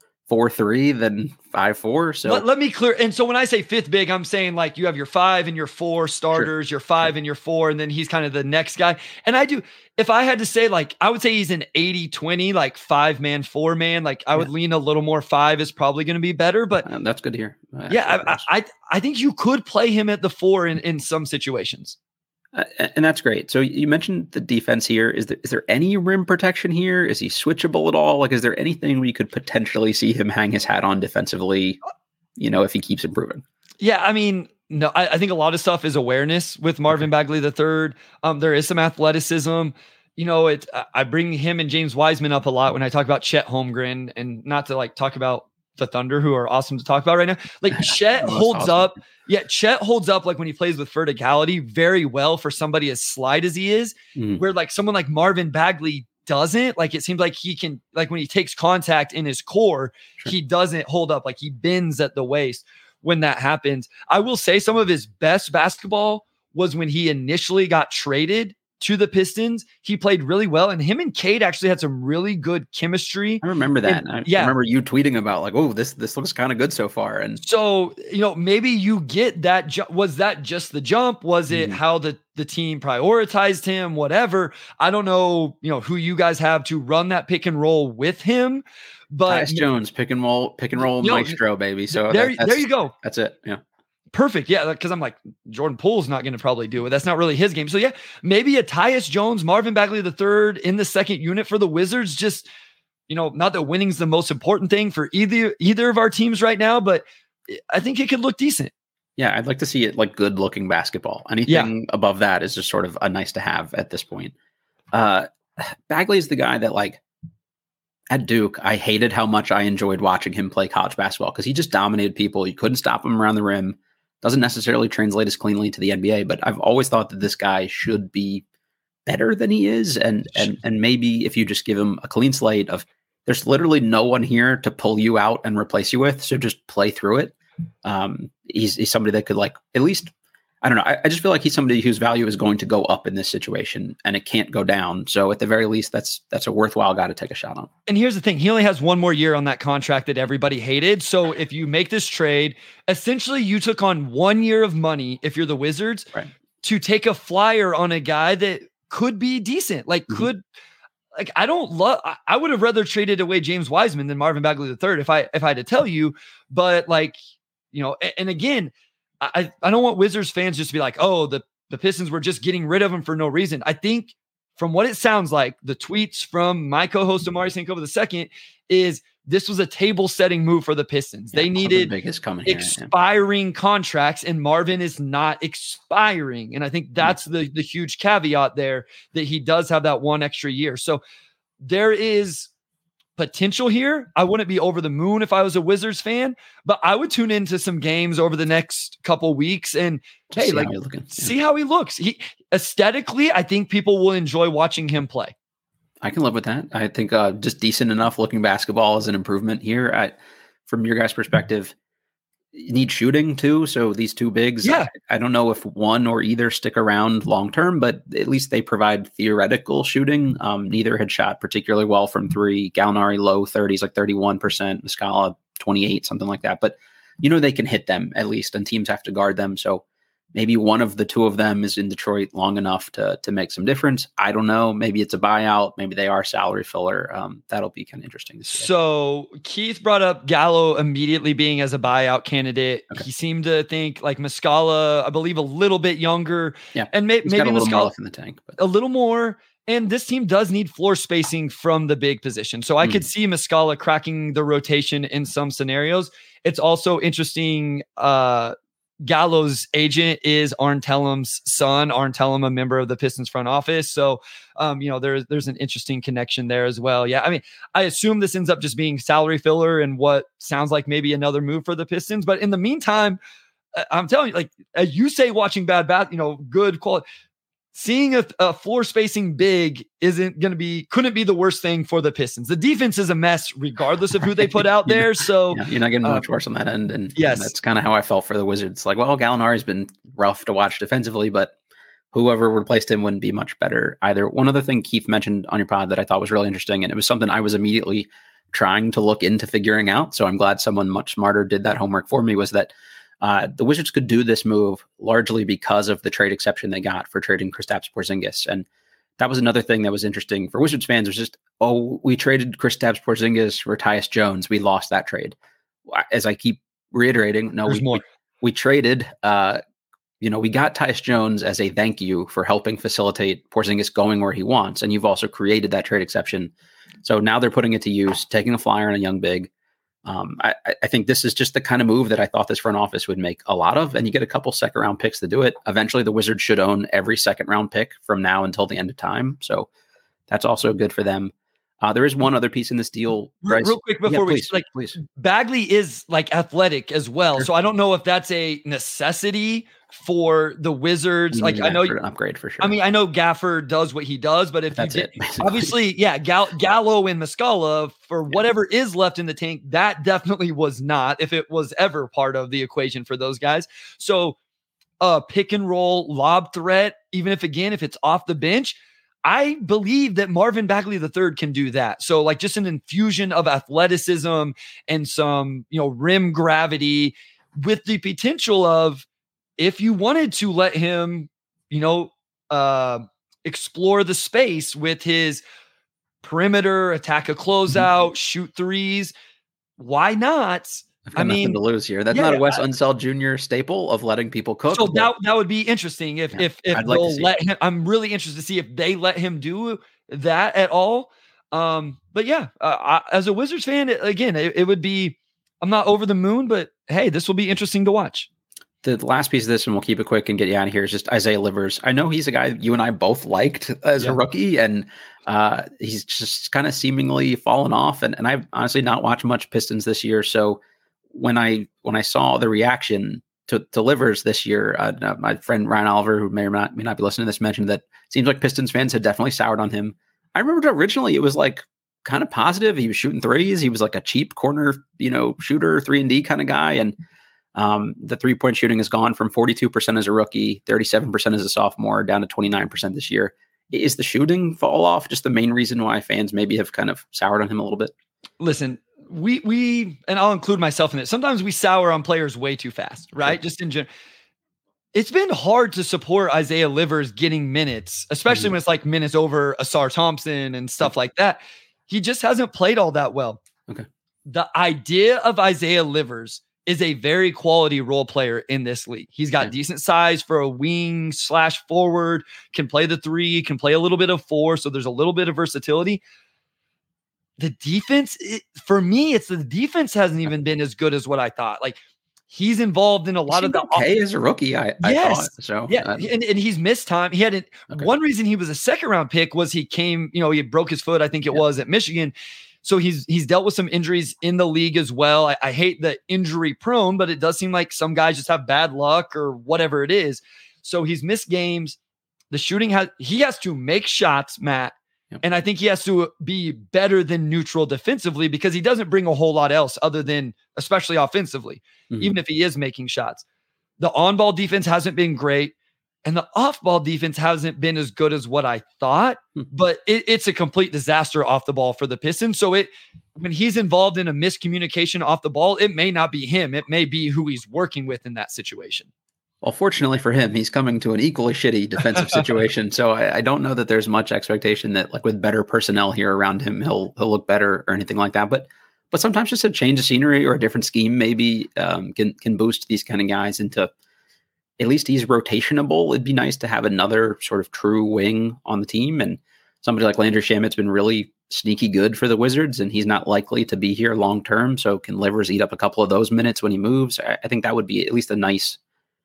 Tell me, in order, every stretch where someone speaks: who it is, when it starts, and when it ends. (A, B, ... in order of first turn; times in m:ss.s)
0:00.3-0:02.4 A
0:02.2-0:16.9 B
0:16.8-0:18.4 A
0:17.9-0:22.0 B
0:22.5-0:31.8 A
0:32.4-0:33.4 A
0:33.8-1:14.5 B
0:47.7-0:48.9 A
0:54.2-0:54.4 A
1:13.4-1:17.4 A
1:17.4-1:29.6 B
1:21.5-1:21.8 A
1:29.3-1:33.6 A
1:31.0-1:31.4 B
1:31.9-1:32.9 B
1:34.1-1:42.5 B
1:43.1-1:48.7 B
1:49.2-1:54.3 A
1:54.9-1:57.0 A
1:58.1-2:08.4 A
2:09.0-2:27.7 A
2:27.9-2:36.1 B
2:36.6-2:40.4 B
2:41.2-2:47.2 B
2:47.7-3:01.9 B
3:01.3-3:02.9 A
3:02.4-3:11.0 B
3:11.6-3:12.5 B
3:13.2-3:25.3 B
3:20.3-3:21.3 A
3:26.0-3:31.7 A
3:32.5-3:49.8 A
3:34.6-3:34.9 B
3:50.3-3:58.7 A
3:58.5-4:07.9 B
4:06.7-4:08.6 A
4:08.6-4:33.2 B
4:33.8-4:37.0 B
4:37.7-4:46.2 B
4:44.8-4:51.5 A
4:47.2-4:47.5 B
4:52.1-5:08.6 A
5:09.2-5:15.4 A
5:15.9-5:19.6 A
5:17.7-5:18.0 B
5:20.2-5:29.5 A
5:30.0-5:39.7 A
5:40.3-5:45.0 A
5:43.4-5:51.9 B
5:51.3-5:52.7 A
5:52.6-6:04.4 B
5:54.8-5:55.7 A
6:05.0-6:19.0 B
6:19.6-6:25.4 B
6:26.2-6:29.1 B
6:29.8-6:31.6 B
6:31.1-6:35.1 A
6:32.1-6:32.6 B
6:34.7-6:48.3 B
6:36.3-6:37.3 A
6:48.8-7:16.9 A
7:17.5-7:27.9 A
7:28.4-7:33.9 B
7:34.9-7:43.4 B
7:38.3-7:38.5 A
7:44.3-7:56.0 B
7:57.4-8:01.8 B
8:02.3-8:03.8 B
8:03.3-8:06.1 A
8:04.8-8:21.8 B
8:22.3-8:33.2 B
8:33.8-8:48.9 B
8:49.4-9:03.7 A
9:04.6-9:18.6 A